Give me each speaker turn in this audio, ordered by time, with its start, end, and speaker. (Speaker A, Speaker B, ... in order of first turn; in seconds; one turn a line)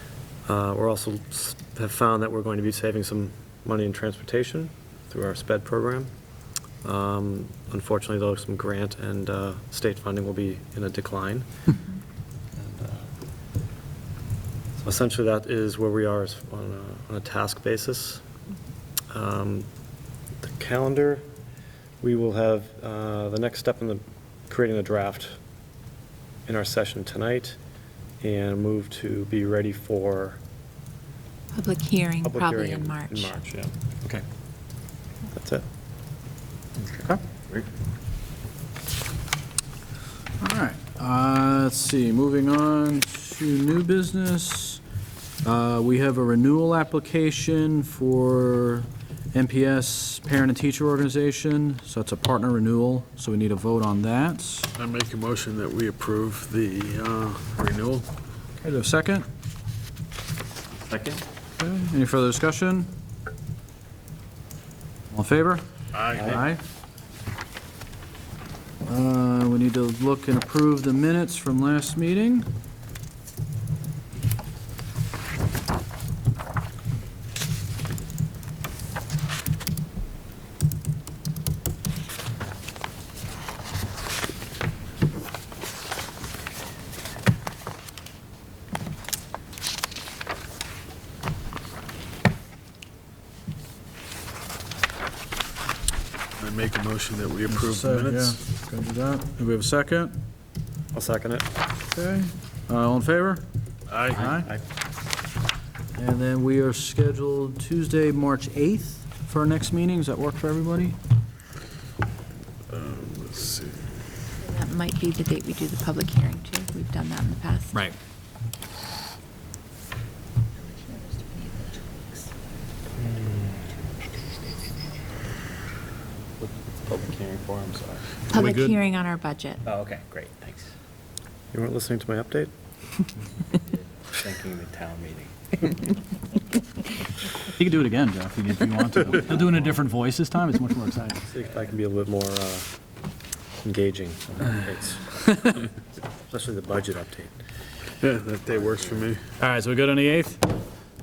Speaker A: 0.5-6.1
Speaker A: 6.8-11.5
Speaker A: 12.5-13.1
Speaker A: 14.8-18.2
Speaker A: 19.1-19.7
Speaker A: 20.4-21.2
Speaker A: 22.0-25.4
Speaker A: 26.5-27.6
Speaker A: 28.2-30.4
Speaker B: 31.5-33.3
Speaker A: 32.2-34.2
Speaker A: 35.3-35.6
Speaker C: 37.0-37.6
Speaker D: 40.4-44.8
Speaker D: 45.4-54.7
Speaker E: 54.7-58.0
Speaker D: 58.6-59.2
Speaker D: 61.6-62.9
Speaker D: 65.1-65.6
Speaker E: 65.9-66.4
Speaker D: 66.2-66.6
Speaker D: 68.8-72.5
Speaker E: 96.4-98.4
Speaker D: 97.5-100.1
Speaker A: 100.9-101.5
Speaker D: 101.9-103.4
Speaker E: 103.9-104.3
Speaker D: 104.1-104.5
Speaker D: 105.9-111.0
Speaker E: 112.7-113.9
Speaker B: 114.4-117.9
Speaker B: 120.9-121.6
Speaker A: 123.0-123.6
Speaker C: 126.6-128.0
Speaker B: 128.3-129.6
Speaker D: 128.3-128.8
Speaker C: 129.7-130.7
Speaker A: 131.5-132.5
Speaker C: 133.6-135.5
Speaker D: 137.5-141.2
Speaker A: 141.2-142.7
Speaker A: 143.6-145.7
Speaker A: 146.3-147.3
Speaker E: 148.0-149.2
Speaker D: 149.4-150.4